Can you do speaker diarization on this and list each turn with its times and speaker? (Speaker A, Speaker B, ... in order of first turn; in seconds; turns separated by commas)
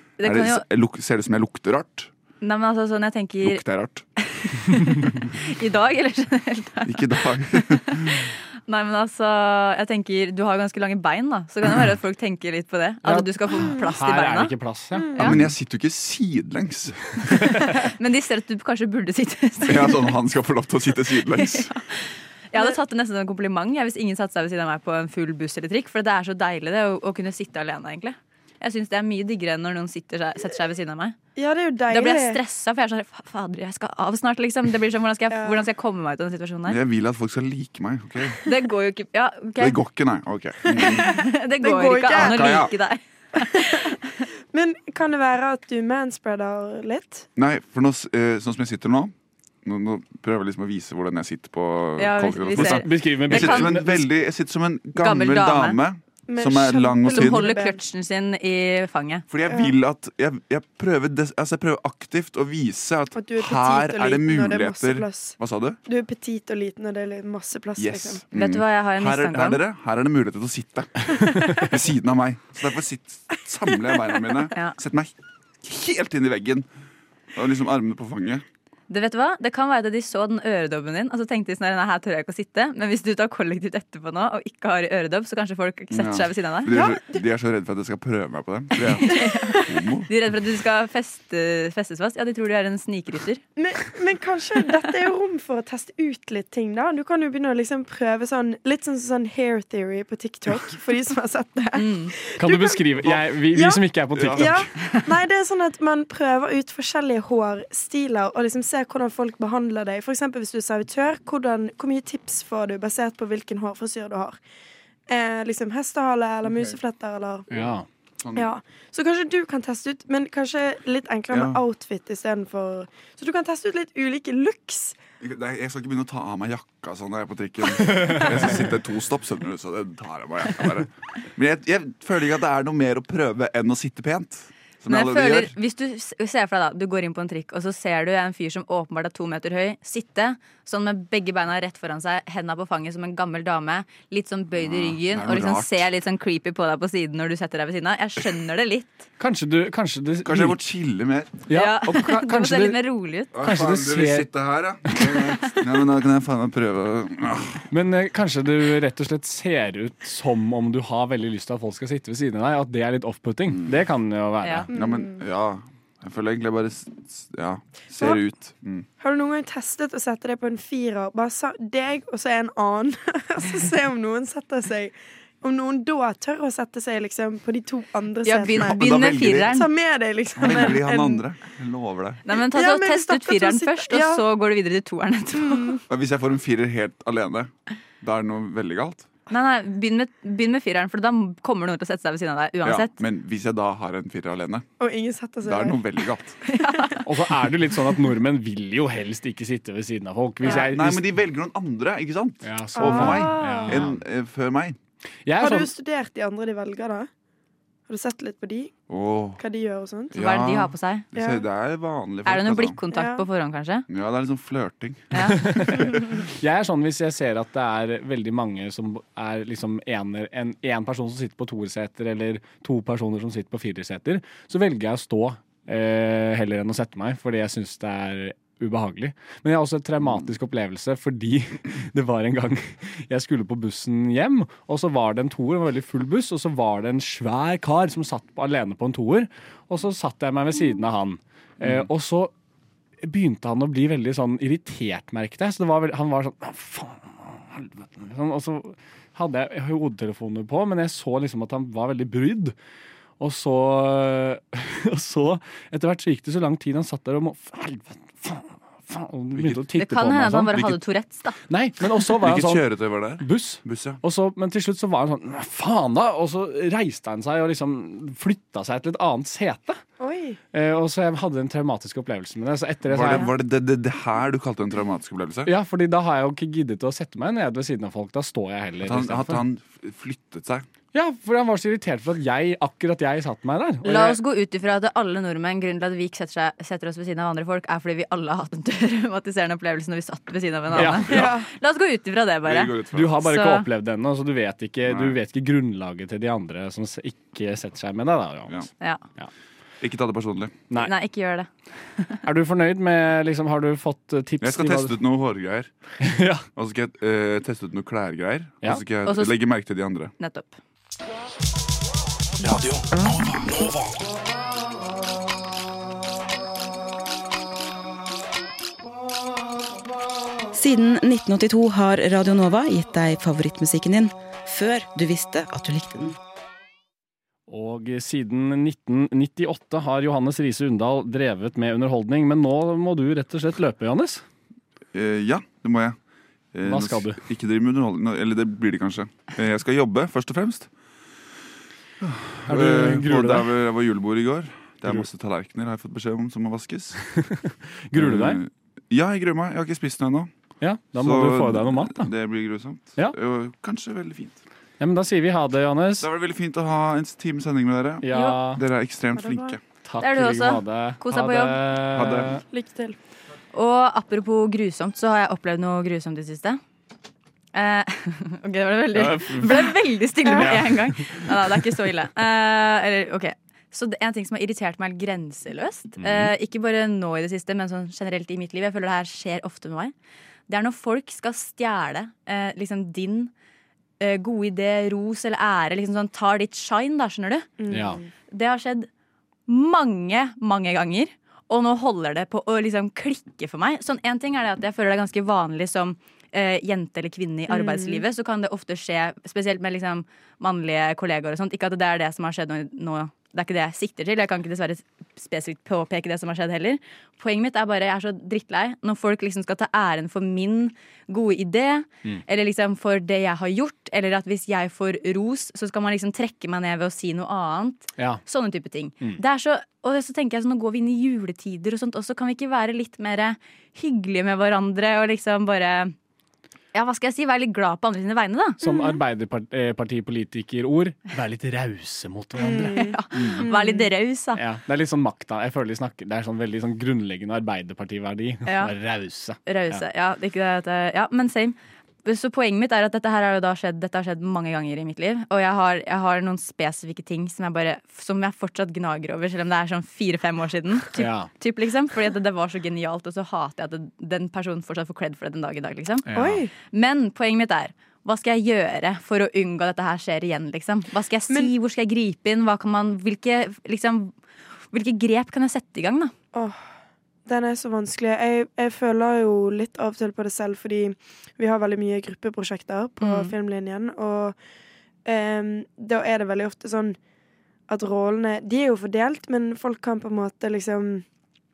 Speaker A: 0.2-0.6, Speaker B: 0.2-2.1, Speaker A: 2.4-3.6, Speaker B: 3.4-4.1, Speaker A: 4.2-14.5, Speaker B: 6.8-8.3, Speaker C: 13.1-15.5, Speaker D: 14.9-15.3, Speaker B: 15.2-17.5, Speaker A: 17.8-20.2, Speaker B: 19.6-21.7, Speaker A: 21.2-31.2, Speaker D: 31.4-32.4, Speaker A: 31.9-36.8, Speaker D: 35.3-35.6, Speaker B: 36.7-38.4, Speaker A: 38.5-39.8, Speaker B: 39.6-41.1, Speaker D: 40.7-42.6, Speaker A: 40.7-44.2, Speaker B: 42.1-42.7, Speaker D: 43.4-44.0, Speaker D: 44.5-47.3, Speaker B: 47.4-49.1, Speaker B: 49.6-57.5, Speaker A: 52.0-53.8, Speaker C: 52.5-54.1, Speaker A: 55.0-55.8, Speaker D: 56.3-57.8, Speaker A: 57.0-59.2, Speaker B: 59.3-65.8, Speaker D: 59.5-59.7, Speaker D: 63.2-68.2, Speaker B: 67.8-76.7, Speaker A: 68.3-69.6, Speaker B: 77.3-78.4, Speaker A: 78.9-86.7, Speaker B: 85.9-90.1, Speaker D: 86.7-87.2, Speaker A: 88.8-93.4, Speaker D: 89.1-89.7, Speaker D: 93.6-102.8, Speaker A: 101.8-102.1, Speaker C: 102.4-104.6, Speaker D: 103.5-114.4, Speaker B: 104.2-104.7, Speaker D: 115.1-117.5, Speaker C: 117.5-117.9, Speaker B: 118.2-118.5, Speaker D: 118.3-125.0, Speaker B: 121.3-121.6, Speaker B: 125.2-135.5, Speaker A: 134.9-149.1, Speaker B: 144.6-145.9, Speaker C: 149.2-150.6, Speaker B: 150.2-151.4, Speaker C: 151.5-152.8, Speaker A: 151.5-153.3, Speaker B: 153.3-157.7, Speaker C: 153.4-154.3, Speaker C: 157.7-164.7, Speaker D: 164.7-165.2, Speaker B: 164.7-168.9, Speaker D: 169.0-178.8, Speaker A: 178.2-179.7, Speaker B: 178.6-179.6, Speaker D: 179.4-181.2, Speaker B: 180.4-182.2, Speaker A: 182.3-185.8, Speaker D: 182.3-184.2, Speaker D: 185.3-185.8, Speaker B: 185.9-189.1, Speaker A: 189.3-192.9, Speaker B: 192.6-194.7, Speaker D: 194.8-195.8, Speaker B: 195.4-196.4, Speaker D: 196.5-197.0, Speaker A: 196.5-197.0, Speaker C: 197.0-201.1, Speaker B: 200.5-204.8, Speaker C: 202.4-204.0, Speaker D: 202.8-203.7, Speaker C: 205.3-205.7, Speaker D: 205.4-207.1, Speaker D: 207.9-208.7, Speaker B: 208.9-209.4, Speaker D: 209.4-210.2, Speaker B: 210.1-212.8, Speaker A: 210.2-211.1, Speaker D: 211.2-211.4, Speaker A: 212.2-213.9, Speaker D: 212.9-213.2, Speaker B: 213.9-215.6, Speaker A: 215.1-215.7, Speaker C: 215.3-242.3, Speaker B: 241.6-241.9, Speaker C: 243.0-252.6, Speaker C: 253.2-260.8, Speaker B: 259.4-259.6, Speaker A: 259.7-261.4, Speaker C: 261.5-269.8, Speaker B: 262.2-264.0, Speaker D: 270.0-270.4, Speaker C: 270.5-273.3, Speaker B: 272.9-275.5, Speaker C: 275.5-279.4, Speaker B: 278.8-280.7, Speaker C: 280.9-284.2, Speaker A: 283.8-293.7, Speaker C: 290.8-291.2, Speaker B: 290.8-291.4, Speaker D: 291.1-291.5, Speaker B: 292.4-293.2, Speaker C: 292.9-298.6, Speaker B: 294.9-295.2, Speaker B: 299.8-300.6, Speaker A: 300.8-302.2, Speaker C: 302.2-304.9, Speaker B: 304.4-305.7, Speaker C: 306.0-306.4, Speaker B: 306.6-310.1, Speaker A: 309.0-309.3, Speaker A: 310.2-310.6, Speaker B: 312.4-314.0, Speaker E: 320.5-326.2, Speaker C: 327.5-334.2, Speaker B: 334.9-336.0, Speaker B: 336.5-340.7, Speaker C: 336.6-337.2, Speaker B: 342.0-347.1, Speaker C: 342.5-343.5, Speaker C: 347.2-348.4, Speaker B: 347.9-350.3, Speaker C: 350.6-352.1, Speaker B: 350.9-354.4, Speaker C: 354.8-356.1, Speaker B: 356.0-359.6, Speaker C: 358.0-358.6, Speaker A: 358.1-358.4, Speaker D: 359.1-359.6, Speaker C: 359.8-362.4, Speaker A: 360.0-361.6, Speaker B: 361.9-362.4, Speaker D: 362.5-363.0, Speaker A: 363.5-366.6, Speaker A: 367.5-379.9, Speaker C: 368.9-369.7, Speaker C: 370.3-371.2, Speaker C: 376.0-376.3, Speaker A: 380.5-383.3, Speaker A: 384.0-387.5, Speaker D: 387.6-388.1, Speaker C: 387.7-388.0, Speaker A: 388.3-388.9, Speaker A: 389.5-425.9, Speaker D: 397.5-398.0, Speaker A: 426.7-428.6, Speaker C: 428.6-433.5, Speaker D: 428.6-429.0, Speaker D: 432.4-433.9, Speaker A: 432.5-434.4, Speaker C: 434.4-439.8, Speaker A: 438.5-438.7, Speaker A: 439.5-456.1, Speaker C: 450.9-451.3, Speaker C: 456.1-456.4, Speaker D: 456.1-456.5, Speaker A: 456.7-464.1, Speaker A: 464.7-466.1, Speaker D: 466.3-466.6, Speaker D: 467.3-474.4, Speaker A: 473.0-473.3, Speaker D: 475.1-477.0, Speaker D: 477.7-481.1